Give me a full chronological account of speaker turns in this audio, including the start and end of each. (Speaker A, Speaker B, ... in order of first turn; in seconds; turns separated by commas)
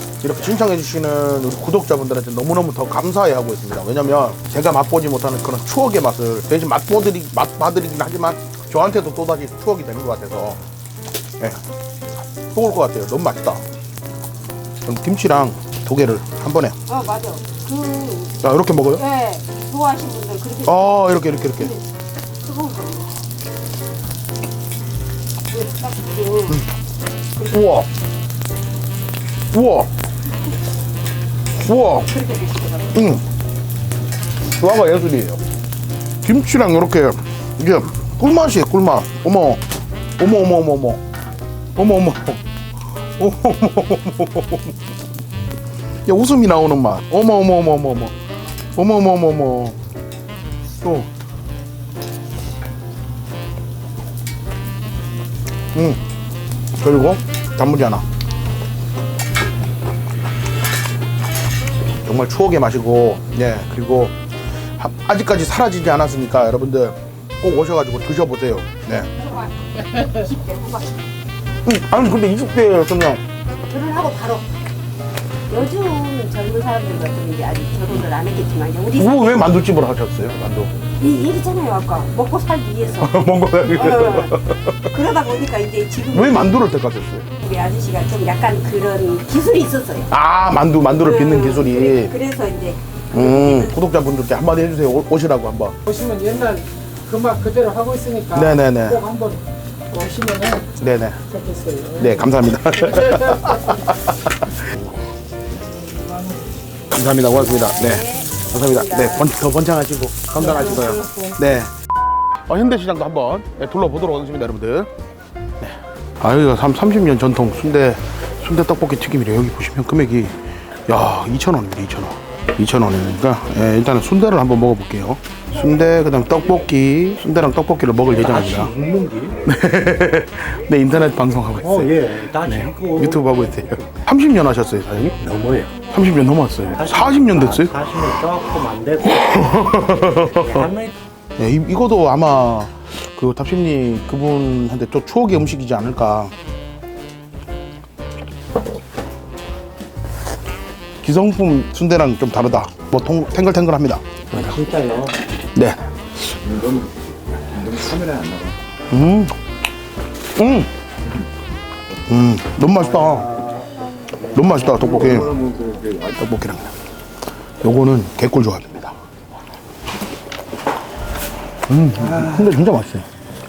Speaker A: 0.2-10.6, Speaker A: 12.5-13.6, Speaker A: 14.8-16.8, Speaker B: 16.9-18.4, Speaker A: 18.4-19.0, Speaker B: 18.9-21.8, Speaker A: 20.6-21.7, Speaker B: 22.4-23.1, Speaker B: 25.5-26.6, Speaker A: 27.4-27.9, Speaker A: 29.5-29.9, Speaker A: 31.6-32.1, Speaker B: 32.1-32.9, Speaker A: 32.9-33.2, Speaker A: 34.6-35.4, Speaker A: 36.2-39.6, Speaker A: 40.2-41.0, Speaker A: 41.8-42.4, Speaker A: 43.2-44.7, Speaker A: 46.0-48.1, Speaker A: 48.8-49.8, Speaker A: 50.8-51.1, Speaker A: 55.7-56.0, Speaker A: 56.8-58.0, Speaker A: 62.0-64.1, Speaker A: 64.8-69.1, Speaker B: 69.2-71.0, Speaker A: 71.6-73.2, Speaker B: 73.7-74.5, Speaker B: 75.5-79.6, Speaker A: 78.9-80.7, Speaker B: 81.0-83.1, Speaker A: 83.0-84.9, Speaker B: 83.7-86.5, Speaker A: 86.1-87.2, Speaker B: 87.4-90.1, Speaker A: 90.1-92.1, Speaker B: 90.9-93.7, Speaker A: 93.1-95.8, Speaker C: 95.9-98.4, Speaker A: 98.3-99.1, Speaker C: 100.2-100.6, Speaker A: 100.8-101.2, Speaker C: 101.5-101.9, Speaker A: 101.9-104.8, Speaker A: 106.9-111.7, Speaker B: 107.6-109.3, Speaker B: 110.5-111.0, Speaker A: 112.5-114.9, Speaker A: 115.6-128.7, Speaker D: 128.1-129.4, Speaker A: 129.4-135.3, Speaker D: 131.6-133.9, Speaker D: 135.2-135.9, Speaker A: 135.9-138.0, Speaker D: 136.7-140.9, Speaker A: 139.0-140.7, Speaker A: 141.4-146.3, Speaker A: 151.0-154.2, Speaker D: 154.3-155.2, Speaker A: 155.5-155.9, Speaker C: 156.4-158.6, Speaker D: 157.9-158.4, Speaker A: 158.9-159.3, Speaker A: 160.3-160.7, Speaker A: 162.1-163.4, Speaker A: 164.3-166.7, Speaker C: 164.8-166.1, Speaker A: 167.6-168.9, Speaker A: 171.7-173.1